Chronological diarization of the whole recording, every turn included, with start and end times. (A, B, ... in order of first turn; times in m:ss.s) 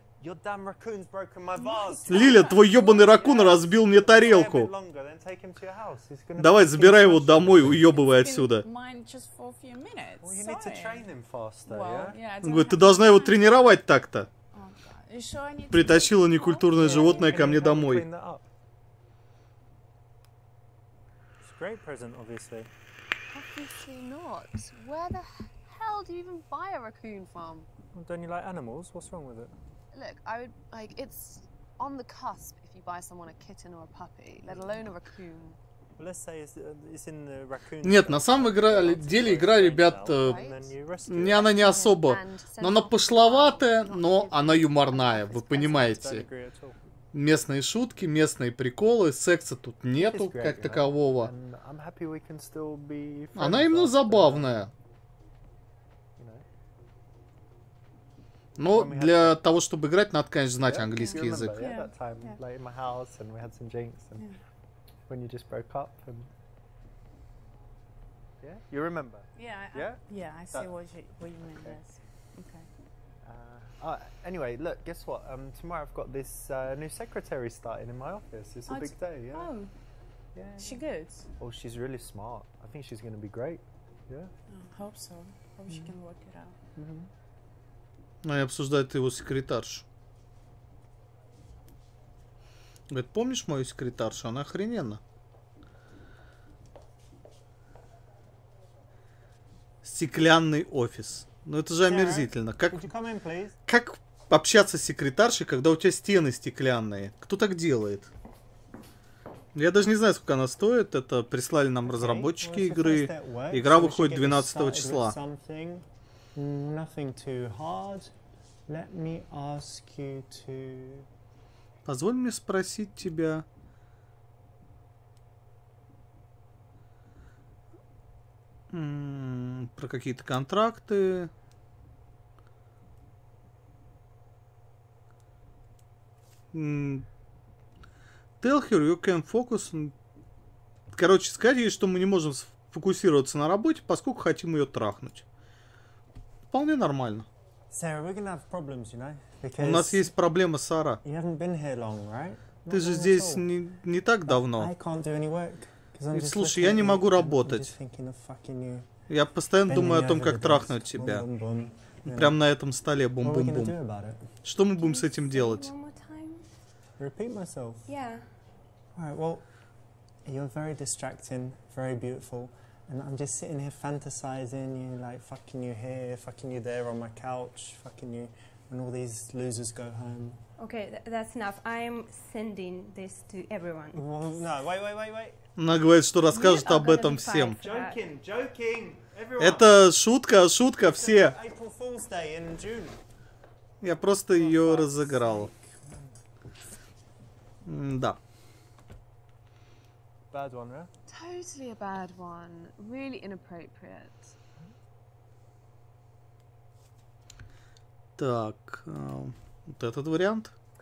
0:00.2-0:07.9 A
0:01.6-0:03.2 B
0:02.1-0:04.7 C
0:06.4-0:08.6 C
0:07.8-0:11.1 B
0:10.2-0:12.2 A
0:11.6-0:13.5 B
0:12.4-0:14.3 C
0:14.5-0:17.5 B
0:15.7-0:18.1 C
0:16.8-0:18.4 A
0:21.4-0:22.7 A
0:23.3-0:27.7 D
0:27.9-0:29.5 A
0:29.9-0:35.6 D
0:36.0-0:41.5 A
0:37.8-0:40.4 C
0:40.1-0:40.7 D
0:41.1-0:46.2 C
0:41.2-0:45.8 D
0:45.5-0:46.8 A
0:47.1-0:51.3 C
0:50.0-0:54.7 A
0:53.3-0:54.7 C
0:56.2-0:56.4 A
0:58.6-1:01.5 C
0:58.7-0:59.4 A
1:00.6-1:04.3 A
1:01.0-1:02.4 B
1:05.1-1:06.3 A
1:08.4-1:10.7 A
1:09.3-1:12.7 B
1:13.2-1:19.5 A
1:18.7-1:19.6 B
1:20.3-1:20.8 A
1:20.6-1:21.3 B
1:21.4-1:24.3 A
1:24.5-1:26.5 B
1:26.7-1:27.1 A
1:28.2-1:29.8 C
1:32.9-1:35.0 C
1:39.8-1:42.9 C
1:41.8-1:43.6 A
1:43.7-1:48.1 C
1:49.5-1:55.2 C
1:51.8-1:58.1 A
1:58.7-2:01.1 A
2:01.9-2:03.4 C
2:08.7-2:11.3 C
2:16.5-2:17.0 C
2:18.4-2:19.9 C
2:20.9-2:25.2 C
2:26.5-2:27.3 C
2:27.7-2:30.1 A
2:29.6-2:31.0 C
2:31.0-2:33.5 A
2:32.7-2:34.7 C
2:34.2-2:38.9 A
2:36.1-2:37.7 C
2:39.1-2:41.2 C
2:39.6-2:42.4 A
2:42.0-2:43.8 C
2:43.2-2:44.3 A
2:44.4-2:45.7 C
2:44.8-2:46.4 E
2:47.0-2:47.9 A
2:47.9-2:48.3 E
2:48.9-2:49.5 A
2:50.2-3:00.4 A
3:00.6-3:04.0 E
3:03.9-3:05.4 A
3:05.6-3:07.6 C
3:06.3-3:06.9 B
3:06.4-3:07.7 E
3:07.4-3:08.0 B
3:07.6-3:09.8 A
3:09.4-3:11.4 C
3:10.9-3:13.0 A
3:13.8-3:15.5 C
3:14.3-3:16.1 A
3:17.6-3:18.2 C
3:20.3-3:20.9 A
3:21.1-3:24.3 D
3:28.2-3:30.5 C